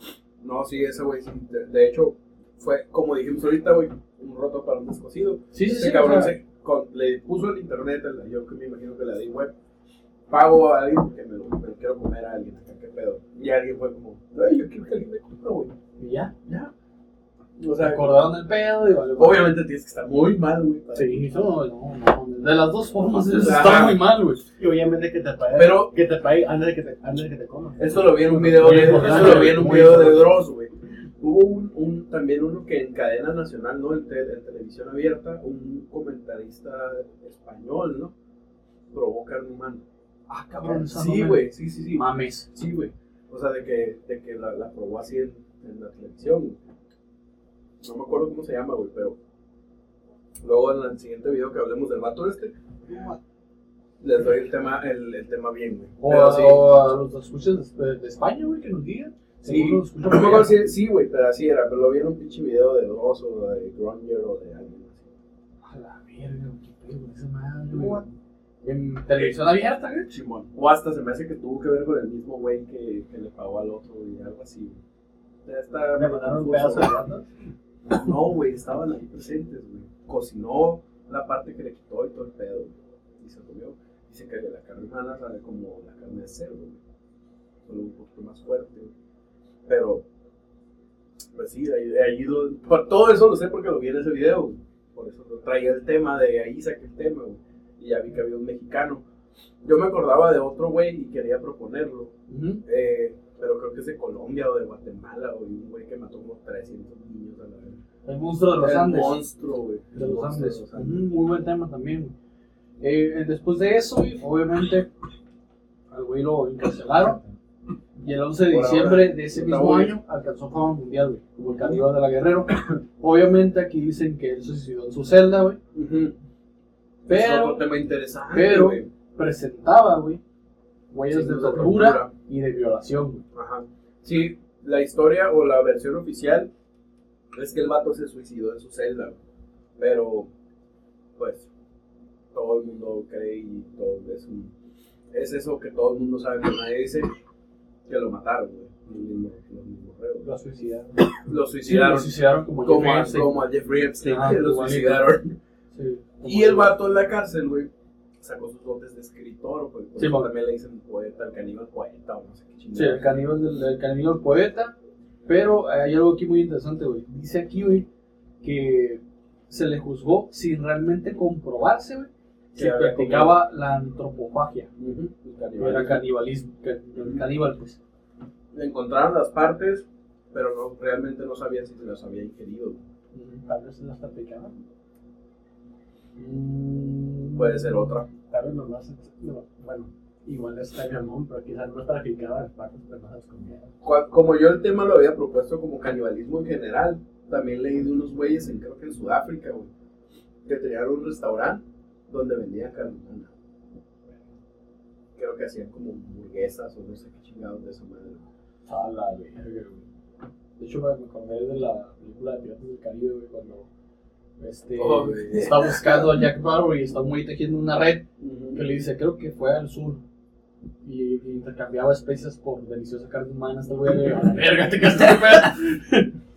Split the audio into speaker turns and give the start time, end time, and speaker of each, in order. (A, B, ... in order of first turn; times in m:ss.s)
0:00.4-0:09.5 A
0:05.5-0:06.3 B
0:10.3-0:15.7 A
0:16.0-0:16.3 B
0:16.5-0:16.7 A
0:17.6-0:18.0 A
0:17.8-0:19.5 B
0:19.2-0:21.2 A
0:20.9-0:24.4 B
0:23.3-0:24.0 A
0:24.6-0:29.7 C
0:25.5-0:25.9 A
0:27.8-0:38.1 A
0:28.4-0:30.3 B
0:38.9-0:39.8 A
0:40.3-0:42.5 B
0:40.6-0:46.6 A
0:47.8-0:49.2 A
0:50.4-0:52.5 A
0:54.0-0:56.6 A
0:56.0-1:00.6 B
0:59.4-1:05.1 A
1:05.6-1:08.0 B
1:07.7-1:08.0 C
1:08.6-1:10.1 B
1:10.1-1:14.8 A
1:15.4-1:16.9 A
1:16.0-1:17.2 C
1:17.9-1:26.8 A
1:27.6-1:28.9 A
1:29.7-1:30.0 A
1:31.3-1:39.0 A
1:39.6-1:42.1 A
1:42.3-1:42.6 B
1:42.6-1:47.8 A
1:48.0-1:49.2 B
1:48.6-1:51.0 A
1:49.9-1:52.1 B
1:52.8-1:54.9 B
1:55.9-1:57.2 B
1:58.0-2:05.6 B
1:58.5-2:00.0 A
2:05.7-2:06.2 A
2:07.0-2:07.6 B
2:07.1-2:08.9 A
2:08.3-2:10.2 B
2:10.9-2:13.2 B
2:11.1-2:12.1 A
2:13.3-2:16.5 A
2:17.3-2:19.2 A
2:19.8-2:20.3 A
2:21.2-2:21.5 A
2:22.3-2:24.5 A
2:25.1-2:27.1 A
2:27.9-2:30.3 A
2:30.2-2:31.0 B
2:31.2-2:35.4 A
2:31.6-2:33.4 B
2:34.0-2:35.1 B
2:35.7-2:36.7 B
2:36.2-2:43.2 A
2:40.0-2:40.3 B
2:42.7-2:44.7 B
2:45.2-2:47.9 B
2:48.4-2:54.7 B
2:52.5-2:53.4 A
2:54.8-2:56.0 A
2:55.6-2:57.8 B
2:57.0-2:57.2 A
2:58.5-3:02.8 A
3:03.1-3:03.4 B
3:03.4-3:04.6 C
3:06.2-3:07.9 B
3:07.4-3:08.1 A
3:08.3-3:13.7 C
3:13.8-3:19.7 A
3:20.4-3:23.3 A
3:25.1-3:28.2 A
3:28.7-3:29.8 B
3:30.6-3:33.7 B
3:34.4-3:40.0 B
3:34.8-3:36.2 A
3:38.2-3:38.6 A
3:40.8-3:46.1 B